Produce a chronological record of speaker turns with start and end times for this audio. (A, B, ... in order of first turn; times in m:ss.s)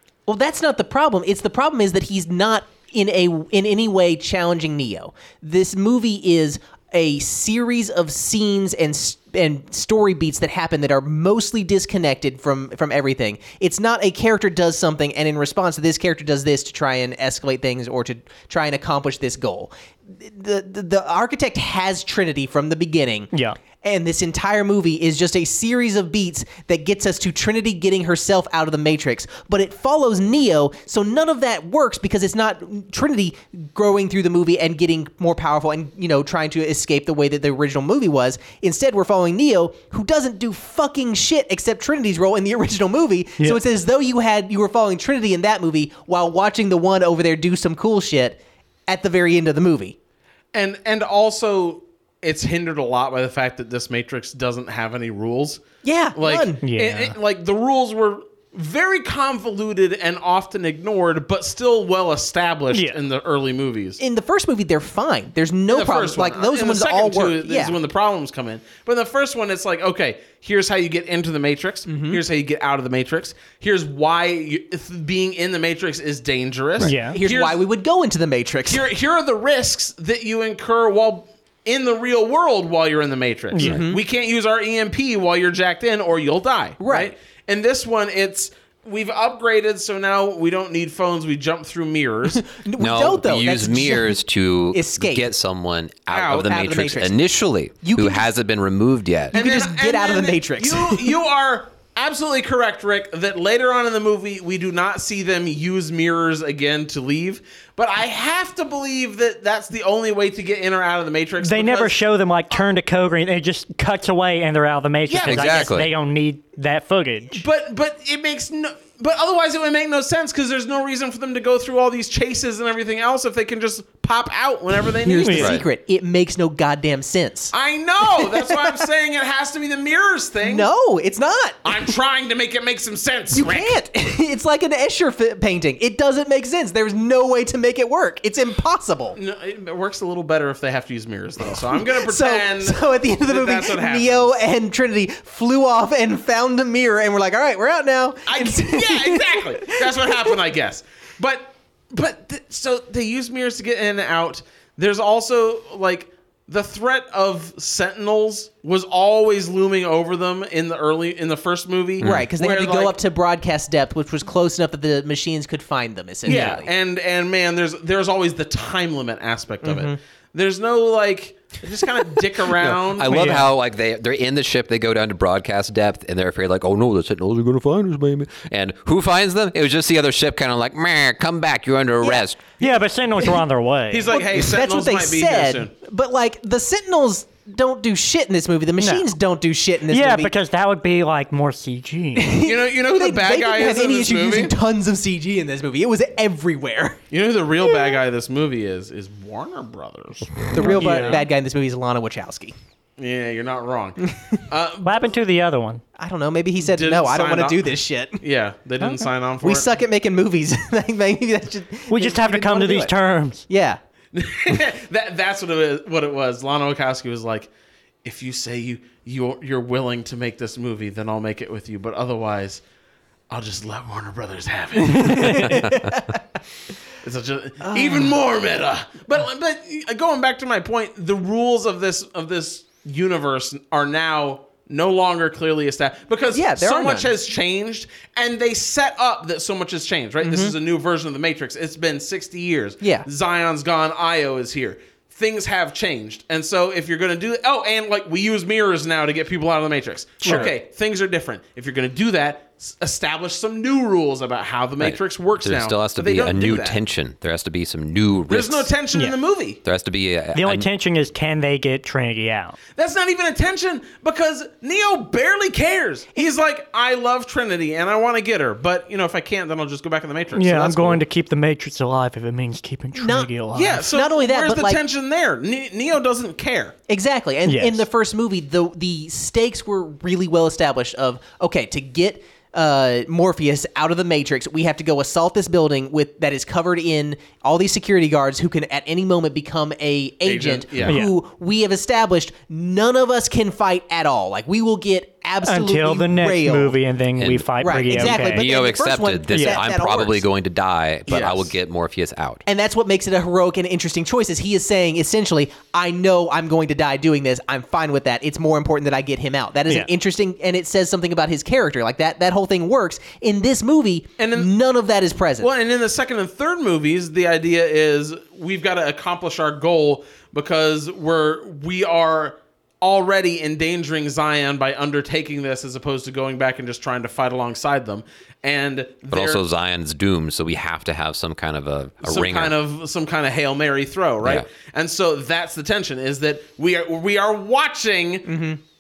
0:00.3-0:50.0 A
0:50.5-0:55.6 B
0:55.8-0:56.6 A
0:56.2-1:04.0 B
0:56.6-0:57.2 C
1:02.7-1:03.0 C
1:04.0-1:07.8 A
1:05.7-1:17.6 B
1:11.9-1:12.2 A
1:16.8-1:17.2 C
1:17.1-1:18.9 A
1:18.7-1:32.5 B
1:23.5-1:23.8 C
1:23.6-1:24.0 A
1:26.8-1:27.1 A
1:32.3-1:34.2 A
1:32.8-1:39.4 D
1:34.7-1:35.3 A
1:36.1-1:36.5 B
1:36.4-1:37.2 A
1:37.8-1:38.3 A
1:39.3-1:41.1 A
1:39.3-1:52.0 B
1:51.4-1:57.4 C
1:55.1-1:55.8 B
1:55.2-1:55.9 D
1:57.4-2:05.6 B
2:05.0-2:08.8 A
2:05.1-2:05.6 C
2:05.4-2:05.6 D
2:07.5-2:10.7 B
2:10.4-2:11.8 A
2:11.6-2:13.8 B
2:13.3-2:19.2 A
2:19.2-2:24.3 B
2:21.4-2:30.3 A
2:28.3-2:43.0 B
2:42.0-2:42.3 D
2:42.0-2:46.7 A
2:46.2-2:53.3 B
2:46.3-2:46.6 C
2:49.6-2:50.0 A
2:52.6-3:02.4 D
2:53.1-2:53.5 C
3:02.0-3:03.3 A
3:02.6-3:04.1 C
3:03.9-3:05.7 B
3:04.1-3:10.3 A
3:08.8-3:09.1 C
3:09.9-3:12.4 C
3:12.2-3:17.0 A
3:12.4-3:14.5 B
3:17.1-3:21.2 B
3:17.6-3:17.9 A
3:20.5-3:22.5 A
3:20.6-3:21.2 C
3:23.0-3:25.0 B
3:24.8-3:25.8 C
3:26.0-3:28.2 A
3:26.6-3:29.7 B
3:29.4-3:32.9 A
3:31.9-3:33.4 C
3:33.5-3:33.8 A
3:34.1-3:37.5 B
3:38.0-3:42.6 B
3:43.3-3:45.8 B
3:45.2-3:46.2 A
3:47.0-4:16.8 B
3:47.6-3:48.2 A
3:56.3-3:57.1 A
4:00.2-4:00.6 A
4:02.8-4:03.1 A
4:10.2-4:10.5 C
4:10.2-4:10.5 A
4:14.8-4:18.7 D
4:18.3-4:19.6 B
4:19.6-4:20.7 D
4:20.4-4:22.6 C
4:22.8-4:31.0 B
4:30.4-4:33.8 C
4:33.0-4:34.8 A
4:33.5-4:36.8 B
4:36.9-4:56.8 A
4:37.5-4:37.8 C
4:50.2-4:51.0 B
4:50.8-4:51.1 C
4:55.4-4:58.4 C
4:57.2-5:02.4 D
4:57.6-5:00.3 A
4:59.3-4:59.6 C
5:01.1-5:01.5 B
5:02.5-5:15.5 A
5:14.2-5:14.5 B
5:15.4-5:29.4 B
5:29.1-5:32.6 D
5:32.0-5:38.3 B
5:38.2-5:38.6 A